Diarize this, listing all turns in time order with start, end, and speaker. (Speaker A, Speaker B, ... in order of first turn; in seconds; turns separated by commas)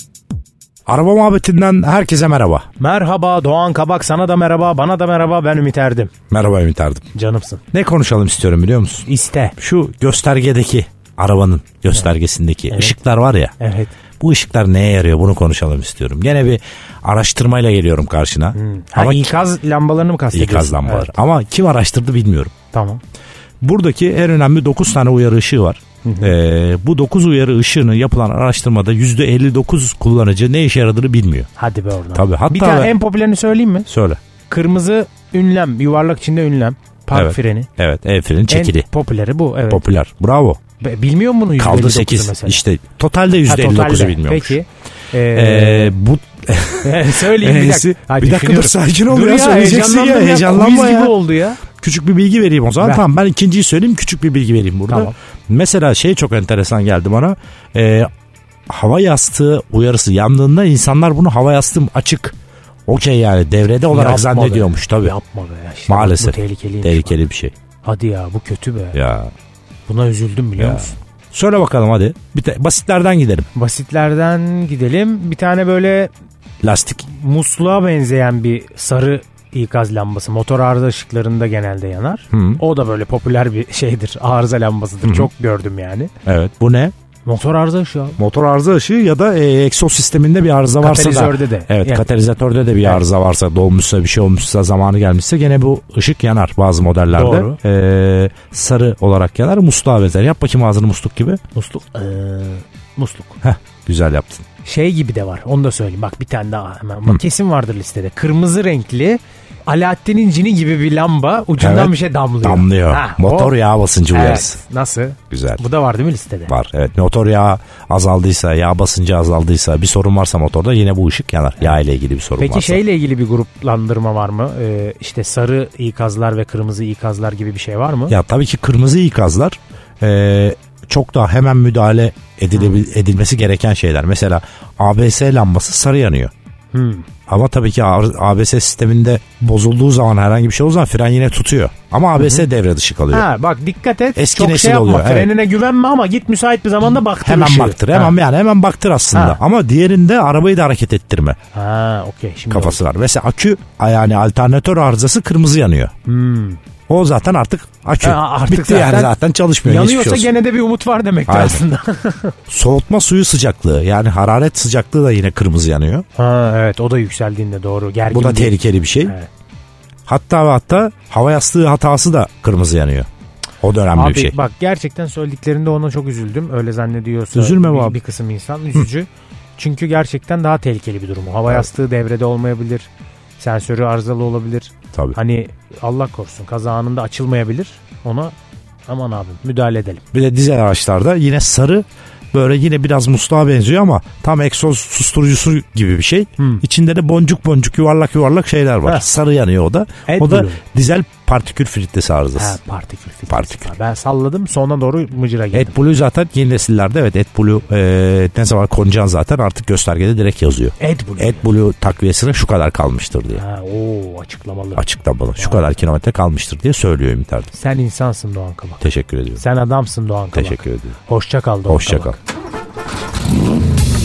Speaker A: 0.9-2.7, Speaker B: 2.8-6.1, Speaker A: 6.3-7.1, Speaker B: 7.1-7.6, Speaker A: 7.7-9.1, Speaker B: 9.1-9.5, Speaker A: 9.6-13.5, Speaker B: 12.7-13.0, Speaker B: 13.6-13.9, Speaker A: 14.2-19.3, Speaker B: 18.5-21.1, Speaker A: 20.3-22.5, Speaker B: 22.7-23.0, Speaker A: 23.6-31.5, Speaker B: 26.0-26.3, Speaker B: 31.6-33.9, Speaker A: 32.1-32.9, Speaker A: 33.9-34.2, Speaker B: 34.5-37.7, Speaker A: 37.1-38.9, Speaker B: 38.5-39.8, Speaker A: 39.7-40.6, Speaker B: 40.8-42.6, Speaker A: 41.6-44.6, Speaker B: 43.4-45.9, Speaker A: 45.3-51.2, Speaker B: 46.8-51.6, Speaker A: 51.7-58.1, Speaker B: 54.9-55.1, Speaker A: 58.7-62.4, Speaker A: 62.9-65.1, Speaker B: 63.9-67.2, Speaker A: 65.9-67.5, Speaker B: 67.8-69.0, Speaker A: 68.9-69.3, Speaker B: 69.9-70.9, Speaker A: 70.6-73.5, Speaker B: 73.5-76.1, Speaker A: 76.6-77.0, Speaker B: 77.0-86.1, Speaker A: 82.3-82.6, Speaker A: 85.0-85.3, Speaker A: 86.2-86.9, Speaker B: 87.2-88.2, Speaker A: 88.2-101.4, Speaker B: 90.8-92.0, Speaker B: 97.1-97.6, Speaker B: 101.5-103.3, Speaker A: 103.4-104.4, Speaker B: 104.6-113.5, Speaker A: 111.6-114.6, Speaker B: 114.1-116.5, Speaker A: 115.3-115.6, Speaker A: 116.5-122.8, Speaker B: 122.4-128.1, Speaker A: 128.1-136.3, Speaker B: 132.5-132.8, Speaker B: 136.7-137.1, Speaker A: 137.3-143.3, Speaker B: 142.2-142.4, Speaker B: 143.1-148.2, Speaker A: 144.2-145.3, Speaker A: 147.2-151.4, Speaker B: 149.1-149.4, Speaker B: 151.5-152.8, Speaker A: 152.5-155.9, Speaker B: 156.1-156.6, Speaker A: 156.9-160.3, Speaker B: 158.0-162.3, Speaker A: 161.3-161.6, Speaker A: 162.5-166.0, Speaker B: 166.2-169.3, Speaker A: 168.1-169.1, Speaker A: 170.1-173.1, Speaker A: 173.6-174.4, Speaker B: 173.9-188.3, Speaker A: 177.3-178.0, Speaker B: 188.9-190.0, Speaker A: 190.1-202.6, Speaker B: 196.4-196.6, Speaker B: 200.1-200.6, Speaker B: 202.3-205.7, Speaker A: 203.3-203.7, Speaker A: 205.5-213.4, Speaker B: 210.8-211.4, Speaker B: 213.3-215.6, Speaker A: 214.8-217.5, Speaker B: 217.5-218.8, Speaker A: 218.8-219.4, Speaker B: 219.3-222.2, Speaker A: 220.3-220.9, Speaker A: 221.7-222.2